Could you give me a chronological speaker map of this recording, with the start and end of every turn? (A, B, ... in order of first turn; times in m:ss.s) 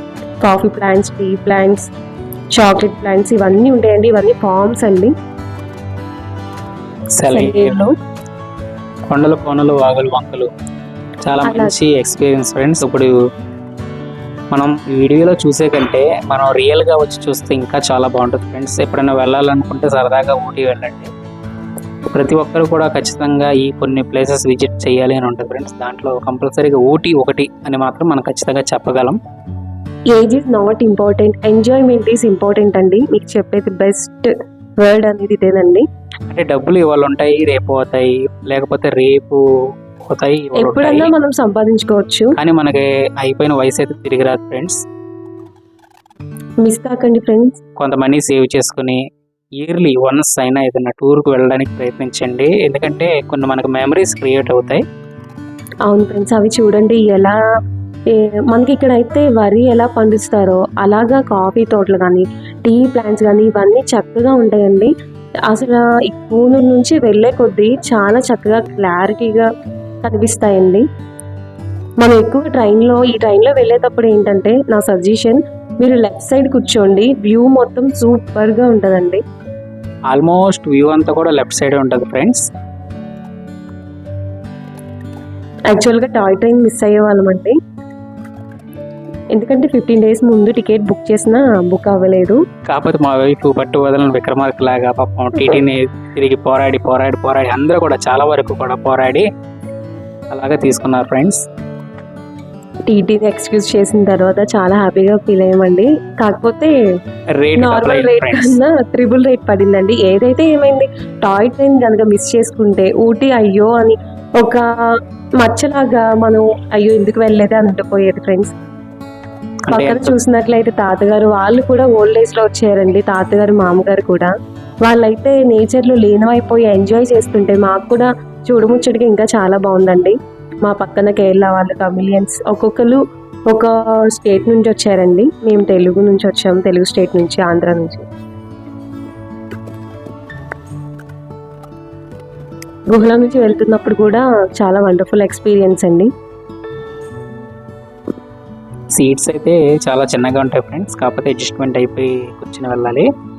0:00.4-0:01.9 A
0:02.6-0:05.1 A
0:07.1-0:07.8 B
0:07.3-0:07.9 A
0:09.1-0:10.5 B
0:11.2-0:13.1 B
0:11.4-0:11.7 A
0:14.5-0:21.1 B
0:22.1-0:29.2 B
0:30.1-0:35.8 A
0:36.3-0:39.4 B
0:40.1-0:41.1 B
0:40.6-0:42.3 A
0:42.4-0:44.8 B
0:46.6-0:47.6 A
0:47.8-0:49.0 B
0:49.6-0:54.8 B
0:55.9-0:57.4 A
0:58.1-1:04.9 A
1:05.5-1:09.5 A
1:10.0-1:10.8 A
1:12.0-1:19.2 A
1:20.1-1:22.5 B
1:25.7-1:27.6 A
1:29.3-1:32.4 A
1:32.6-1:39.2 B
1:40.3-1:41.4 B
1:42.9-1:46.7 A
1:47.4-1:48.6 B
1:47.6-1:54.6 A
1:55.4-1:58.5 A
1:59.7-2:00.1 B
1:59.7-2:04.3 A
2:04.8-2:18.0 A
2:22.9-2:26.1 A
2:28.9-2:33.0 B